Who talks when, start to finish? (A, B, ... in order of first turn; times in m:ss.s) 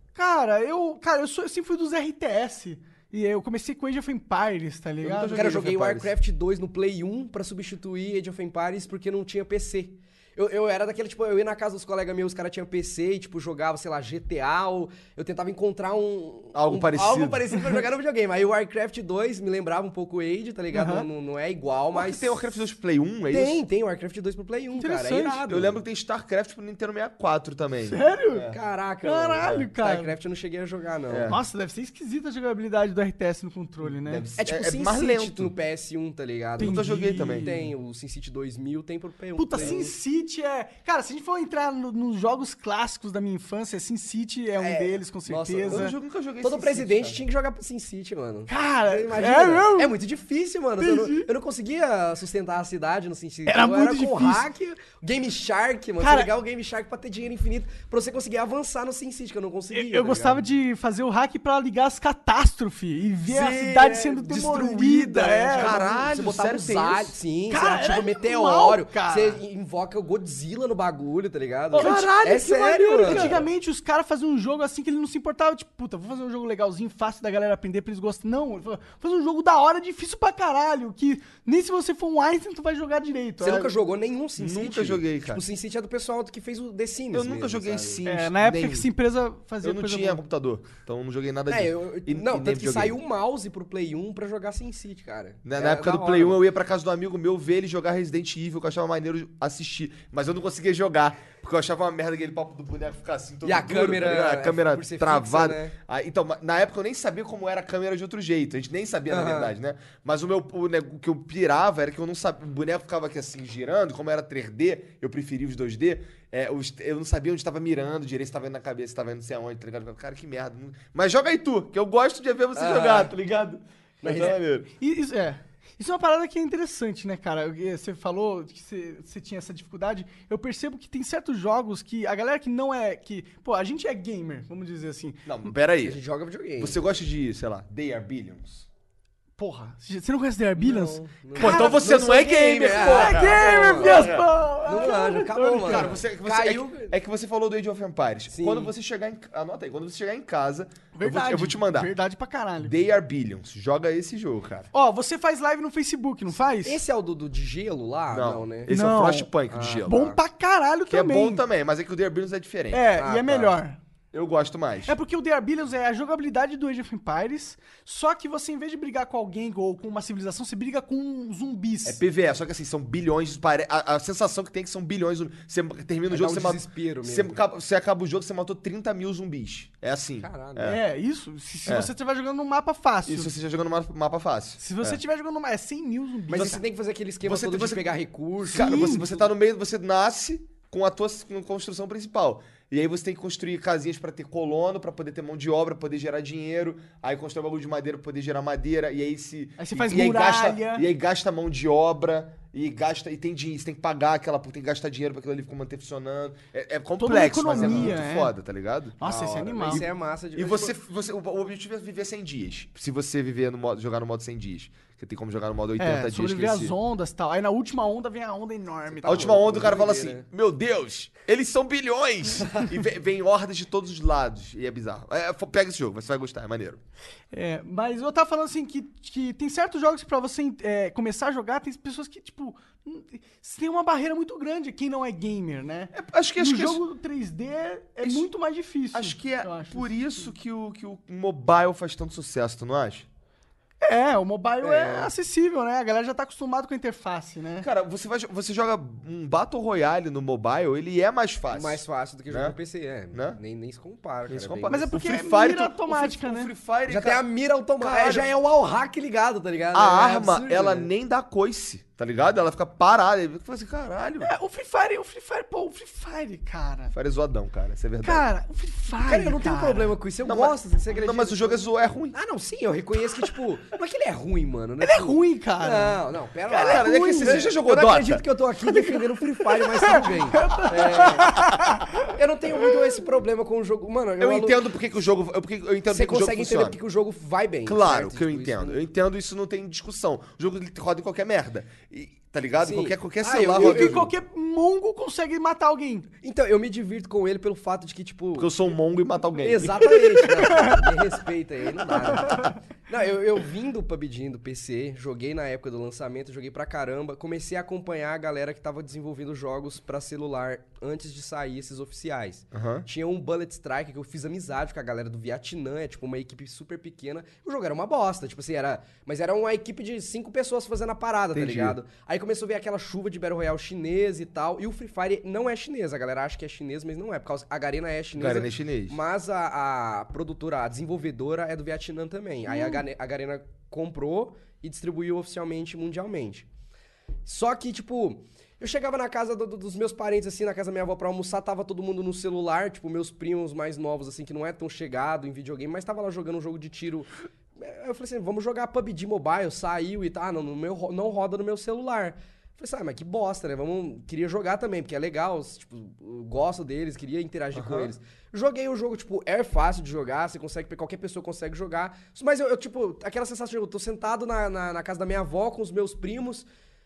0:00.2-0:05.4 A
0:05.0-0:06.1 B
0:05.3-0:22.5 C
0:16.5-0:17.5 B
0:20.7-0:21.1 A
0:21.9-0:23.6 B
0:23.3-0:25.8 C
0:24.8-0:25.5 A
0:25.5-0:28.6 B
0:27.9-0:28.5 A
0:28.5-0:31.3 C
0:29.0-0:30.2 A
0:29.4-0:29.7 B
0:31.1-0:31.4 B
0:31.3-0:34.3 A
0:33.8-0:35.5 B
0:34.4-0:39.9 C
0:36.6-0:37.5 B
0:36.6-0:37.7 A
0:39.4-0:45.9 A
0:39.6-0:39.8 B
0:44.6-1:00.4 C
0:45.7-0:47.2 B
0:48.5-0:50.0 A
0:50.8-0:51.3 A
0:53.5-0:54.5 A
0:56.0-0:56.3 A
0:59.7-1:05.8 A
1:03.3-1:04.7 B
1:03.9-1:13.4 C
1:05.5-1:07.2 B
1:07.5-1:09.4 A
1:11.7-1:12.3 A
1:11.8-1:13.4 B
1:12.8-1:23.7 A
1:23.4-1:28.0 C
1:24.4-1:25.4 B
1:27.1-1:28.9 B
1:28.0-1:30.2 A
1:29.6-1:33.0 B
1:31.5-1:36.4 C
1:35.4-2:04.7 B
1:43.4-1:45.8 C
1:49.1-1:49.5 C
2:02.6-2:03.1 C
2:04.0-2:04.4 C
2:04.8-2:15.5 A
2:15.3-2:16.0 B
2:15.8-2:16.8 C
2:16.6-2:18.7 B
2:19.4-2:21.8 A
2:20.6-2:26.9 C
2:21.4-2:24.9 B
2:22.7-2:26.0 A
2:25.6-2:31.9 B
2:28.3-2:28.7 C
2:30.9-2:32.8 A
2:32.6-2:34.7 B
2:34.7-2:36.8 A
2:36.6-2:38.7 C
2:38.1-2:40.1 B
2:38.7-2:39.3 A
2:39.5-2:40.2 C
2:39.9-2:41.4 A
2:40.9-2:42.9 B
2:42.7-2:43.8 A
2:43.0-2:43.6 C
2:44.1-2:45.0 B
2:44.9-2:52.0 A
2:51.8-3:00.8 B
2:56.1-2:57.4 C
3:00.2-3:00.8 C
3:00.6-3:03.3 A
3:03.1-3:05.0 B
3:04.6-3:06.6 A
3:06.3-3:09.1 C
3:06.3-3:06.6 B
3:07.2-3:07.9 B
3:08.5-3:29.0 B
3:08.5-3:09.1 A
3:19.6-3:20.9 A
3:27.0-3:28.3 A
3:27.5-3:27.9 C
3:29.0-3:29.8 A
3:29.0-3:30.8 C
3:29.6-3:36.8 B
3:35.8-3:39.4 A
3:38.9-3:40.3 C
3:39.0-3:46.8 B
3:47.3-4:00.1 A
3:55.9-3:56.8 B
3:58.0-3:58.3 B
3:58.9-4:03.1 B
4:03.8-4:07.7 A
4:04.6-4:05.1 C
4:07.6-4:12.6 B
4:11.5-4:14.9 C
4:13.1-4:13.4 B
4:14.3-4:17.2 B
4:14.7-4:16.5 A
4:16.9-4:20.9 C
4:17.8-4:18.3 B
4:19.7-4:24.3 B
4:24.2-4:26.9 A
4:26.9-4:28.3 B
4:28.0-4:29.9 A
4:29.0-4:41.4 C
4:30.2-4:32.2 B
4:34.8-4:37.5 A
4:36.5-4:38.3 B
4:38.7-4:39.0 A
4:39.6-4:41.9 A
4:42.1-4:44.7 C
4:44.2-4:46.8 B
4:45.9-4:48.8 C
4:47.7-4:54.1 B
4:52.6-4:54.0 C
4:53.6-4:56.1 A
4:56.2-4:58.5 C
4:58.4-5:00.7 B
4:59.4-5:36.5 C
5:12.5-5:12.9 B
5:21.3-5:21.8 B
5:28.2-5:29.0 B
5:32.5-5:32.8 A
5:37.2-6:06.5 C
5:57.5-5:57.9 B